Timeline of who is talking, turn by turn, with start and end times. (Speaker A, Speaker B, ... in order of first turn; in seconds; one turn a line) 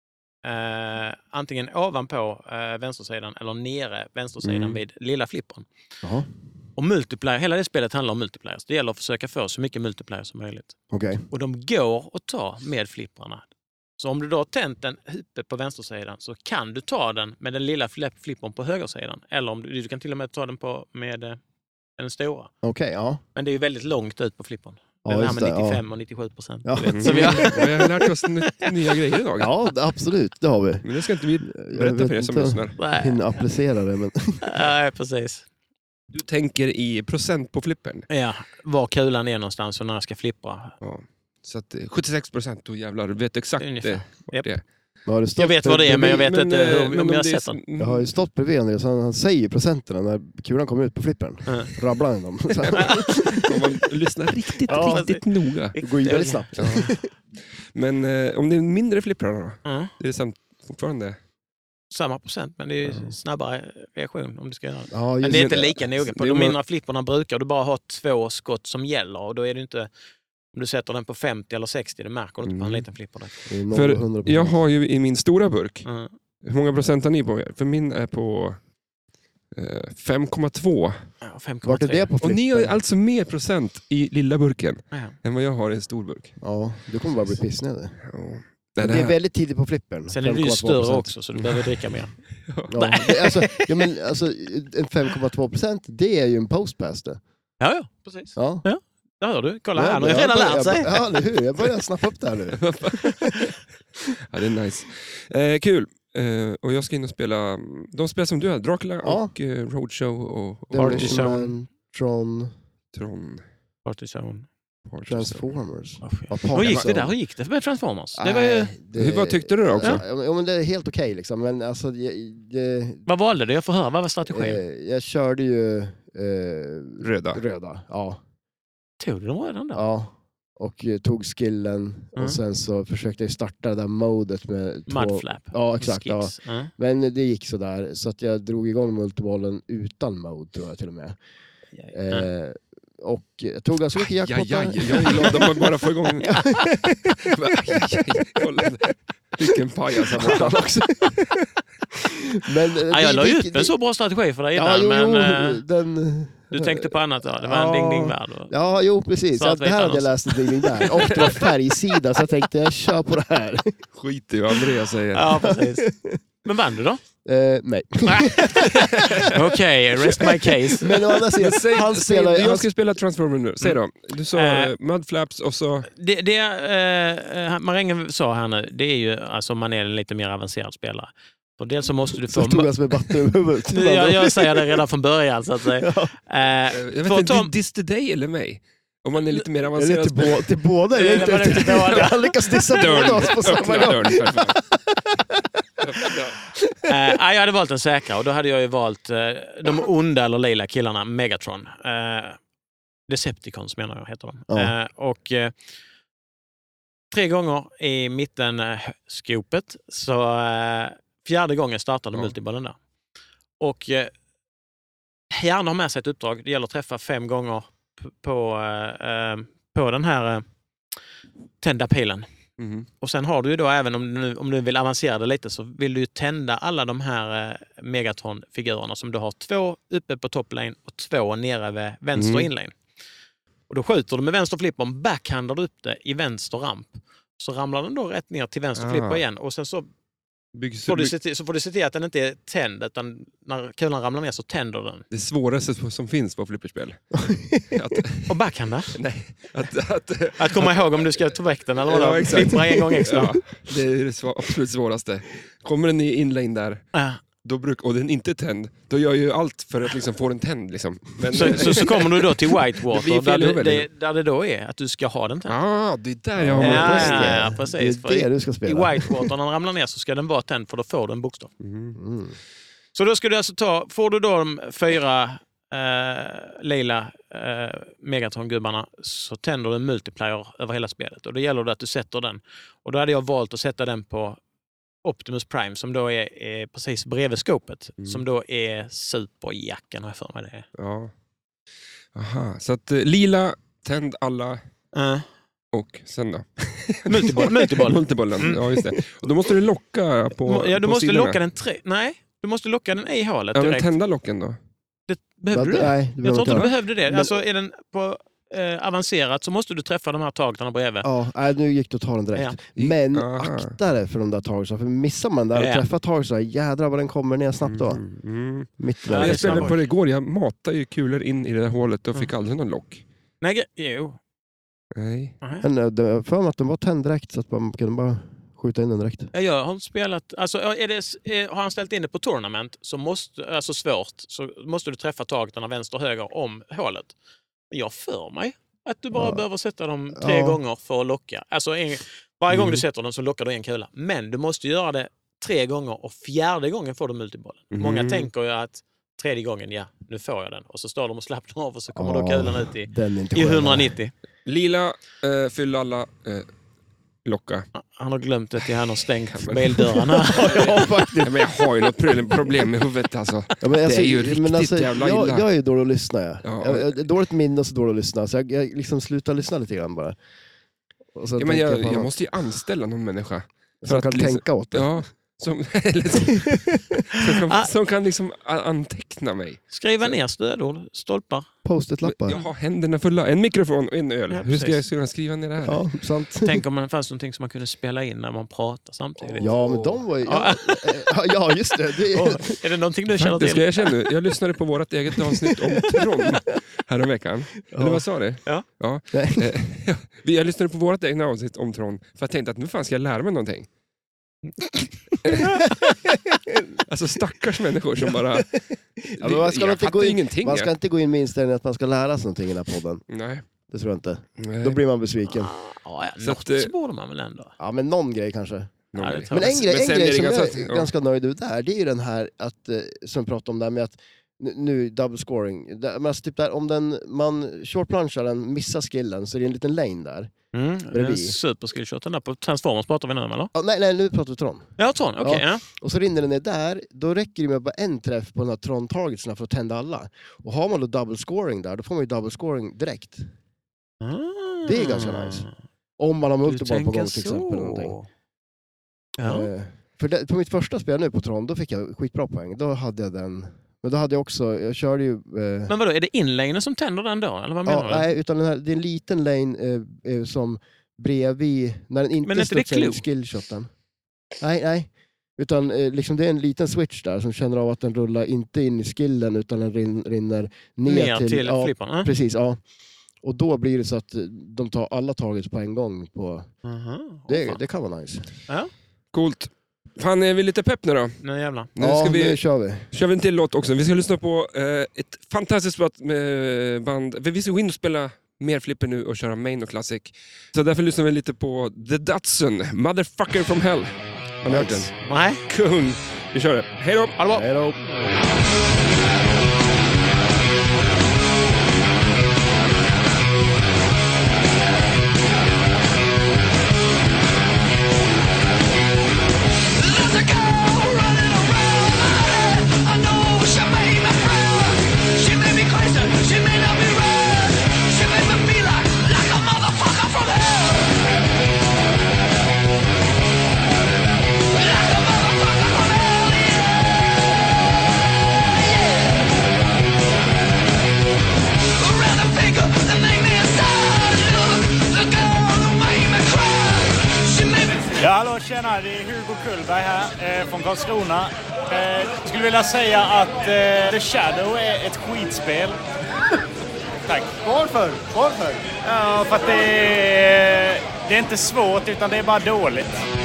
Speaker A: 0.4-5.7
Speaker B: 4.4-4.8
Speaker A: 6.8-13.4
Speaker C: 10.9-11.2
Speaker A: 14.0-21.4
Speaker A: 22.0-22.5
Speaker C: 22.6-23.2
Speaker A: 23.3-27.7
Speaker C: 25.0-25.8
Speaker C: 26.6-27.7
Speaker B: 26.9-29.5
Speaker C: 29.4-30.8
Speaker B: 30.8-32.8
Speaker C: 31.4-34.6
Speaker A: 32.8-33.4
Speaker A: 34.4-35.5
Speaker B: 36.1-38.1
Speaker A: 38.1-40.7
Speaker B: 40.8-44.6
Speaker A: 43.6-44.5
Speaker C: 45.0-46.3
Speaker A: 45.4-47.6
Speaker B: 46.0-48.1
Speaker C: 47.8-53.5
Speaker A: 51.5-51.7
Speaker A: 52.7-53.1
Speaker B: 52.9-56.9
Speaker C: 54.7-55.1
Speaker A: 54.7-56.9
Speaker C: 55.8-57.1
Speaker B: 57.7-61.2
Speaker A: 59.6-59.9
Speaker A: 61.9-69.9
Speaker B: 62.8-63.1
Speaker C: 64.9-65.8
Speaker B: 65.3-66.6
Speaker A: 70.5-73.5
Speaker B: 72.4-72.9
Speaker C: 73.5-74.6
Speaker B: 73.7-75.9
Speaker A: 75.8-76.1
Speaker B: 76.4-78.6
Speaker B: 79.5-81.1
Speaker A: 81.2-82.1
Speaker C: 81.6-82.8
Speaker B: 82.2-86.4
Speaker C: 86.4-88.0
Speaker B: 88.0-89.2
Speaker C: 88.8-91.1
Speaker A: 90.1-92.2
Speaker B: 91.4-91.6
Speaker B: 92.4-92.7
Speaker C: 92.7-97.2
Speaker A: 92.7-93.9
Speaker A: 97.6-101.1
Speaker C: 98.4-98.6
Speaker C: 99.7-103.3
Speaker B: 102.6-103.5
Speaker B: 104.2-111.3
Speaker C: 109.0-109.3
Speaker C: 110.7-112.5
Speaker A: 110.7-111.5
Speaker B: 112.9-113.4
Speaker A: 113.8-114.5
Speaker B: 114.9-115.5
Speaker C: 115.1-117.1
Speaker A: 116.0-118.7
Speaker B: 116.5-117.0
Speaker C: 118.1-123.0
Speaker B: 119.0-120.0
Speaker A: 123.1-124.6
Speaker C: 124.2-128.2
Speaker B: 127.0-127.4
Speaker A: 129.0-129.8
Speaker C: 129.7-141.2
Speaker A: 134.9-136.7
Speaker A: 141.8-142.3
Speaker C: 141.9-145.6
Speaker B: 144.2-151.3
Speaker C: 146.4-147.0
Speaker C: 150.2-151.2
Speaker C: 152.4-153.7
Speaker A: 152.9-155.6
Speaker C: 154.5-163.8
Speaker A: 156.5-158.5
Speaker A: 159.3-161.4
Speaker B: 163.9-165.4
Speaker A: 165.1-165.9
Speaker C: 165.4-166.2
Speaker A: 166.4-167.0
Speaker C: 167.2-169.1
Speaker A: 168.1-168.6
Speaker B: 168.9-169.4
Speaker A: 169.2-171.0
Speaker C: 170.1-172.7
Speaker B: 171.3-175.9
Speaker A: 174.3-174.7
Speaker A: 175.9-187.5
Speaker C: 182.3-184.8
Speaker C: 185.6-186.1
Speaker B: 186.7-194.6
Speaker C: 189.4-195.4
Speaker A: 190.9-192.2
Speaker B: 195.8-196.4
Speaker A: 196.9-202.4
Speaker A: 203.1-205.6
Speaker A: 207.1-212.8
Speaker A: 213.6-214.1
Speaker A: 215.3-220.4
Speaker A: 221.6-222.3
Speaker B: 222.6-222.9
Speaker A: 223.0-232.7
Speaker B: 232.1-232.5
Speaker A: 233.7-239.9
Speaker B: 238.7-239.2
Speaker B: 240.5-241.1
Speaker A: 240.9-245.1
Speaker B: 245.1-248.3
Speaker C: 247.2-247.8
Speaker A: 248.3-248.9
Speaker B: 248.9-251.3
Speaker A: 250.4-253.4
Speaker B: 251.9-256.8
Speaker A: 256.9-257.2
Speaker B: 257.4-263.9
Speaker A: 261.3-265.6
Speaker B: 265.5-267.4
Speaker C: 266.4-269.3
Speaker A: 266.6-271.5
Speaker B: 271.6-272.0
Speaker C: 271.9-272.4
Speaker A: 272.9-284.4
Speaker A: 285.0-290.7
Speaker B: 288.0-288.2
Speaker B: 290.7-291.1
Speaker B: 292.1-294.6
Speaker A: 294.9-295.3
Speaker B: 295.7-301.4
Speaker A: 297.1-298.7
Speaker A: 300.4-303.9
Speaker B: 303.5-304.6
Speaker A: 305.1-311.1
Speaker C: 305.5-307.4
Speaker C: 311.0-318.0
Speaker B: 312.8-313.8
Speaker A: 315.6-315.8
Speaker B: 317.6-323.0
Speaker C: 318.8-319.7
Speaker A: 319.1-319.8
Speaker A: 323.4-324.2
Speaker B: 324.9-325.4
Speaker A: 325.4-325.7
Speaker C: 325.6-329.3
Speaker A: 329.3-337.1
Speaker A: 337.7-354.1
Speaker C: 339.1-339.4
Speaker C: 340.1-340.6
Speaker C: 342.5-342.8
Speaker B: 347.7-348.3
Speaker C: 351.9-353.9
Speaker B: 354.4-356.5
Speaker B: 357.2-357.7
Speaker A: 357.7-360.9
Speaker B: 359.3-365.4
Speaker C: 360.2-361.4
Speaker C: 363.6-370.2
Speaker B: 366.4-367.1
Speaker C: 371.1-372.1
Speaker B: 371.4-380.2
Speaker C: 373.8-374.9
Speaker C: 376.2-377.0
Speaker A: 379.7-381.5
Speaker C: 381.6-382.4
Speaker B: 382.0-385.8
Speaker A: 384.3-384.8
Speaker C: 385.6-386.6
Speaker A: 386.4-391.1
Speaker C: 389.4-392.6
Speaker A: 392.1-393.9
Speaker B: 393.2-403.7
Speaker C: 397.7-398.0
Speaker C: 399.1-399.5
Speaker B: 405.2-405.7
Speaker C: 405.7-406.7
Speaker B: 406.8-408.5
Speaker C: 409.1-413.0
Speaker B: 409.2-410.7
Speaker B: 413.1-413.4
Speaker C: 413.7-415.6
Speaker B: 414.4-414.8
Speaker A: 415.3-417.5
Speaker B: 416.2-416.7
Speaker C: 417.6-418.7
Speaker B: 418.9-420.9
Speaker A: 419.0-419.6
Speaker C: 419.3-430.3
Speaker A: 430.5-433.5
Speaker C: 430.9-431.4
Speaker C: 433.6-443.3
Speaker A: 434.8-435.6
Speaker A: 444.0-445.5
Speaker C: 444.6-445.5
Speaker C: 446.0-447.9
Speaker A: 446.4-448.1
Speaker A: 449.2-449.5
Speaker C: 449.2-455.7
Speaker A: 455.7-458.1
Speaker C: 457.6-463.7
Speaker A: 462.2-463.0
Speaker C: 464.4-472.6
Speaker A: 470.9-472.1
Speaker C: 473.2-476.5
Speaker A: 476.6-477.6
Speaker C: 477.3-478.3
Speaker B: 479.1-481.2
Speaker A: 481.2-481.7
Speaker B: 481.7-497.2
Speaker C: 481.8-482.9
Speaker C: 494.4-494.9
Speaker A: 494.9-495.4
Speaker A: 497.2-497.4
Speaker C: 497.3-497.8
Speaker D: 509.7-520.9
Speaker D: 524.5-526.7
Speaker D: 528.5-529.2
Speaker D: 531.6-537.9
Speaker E: 537.9-545.8
Speaker E: 547.1-553.0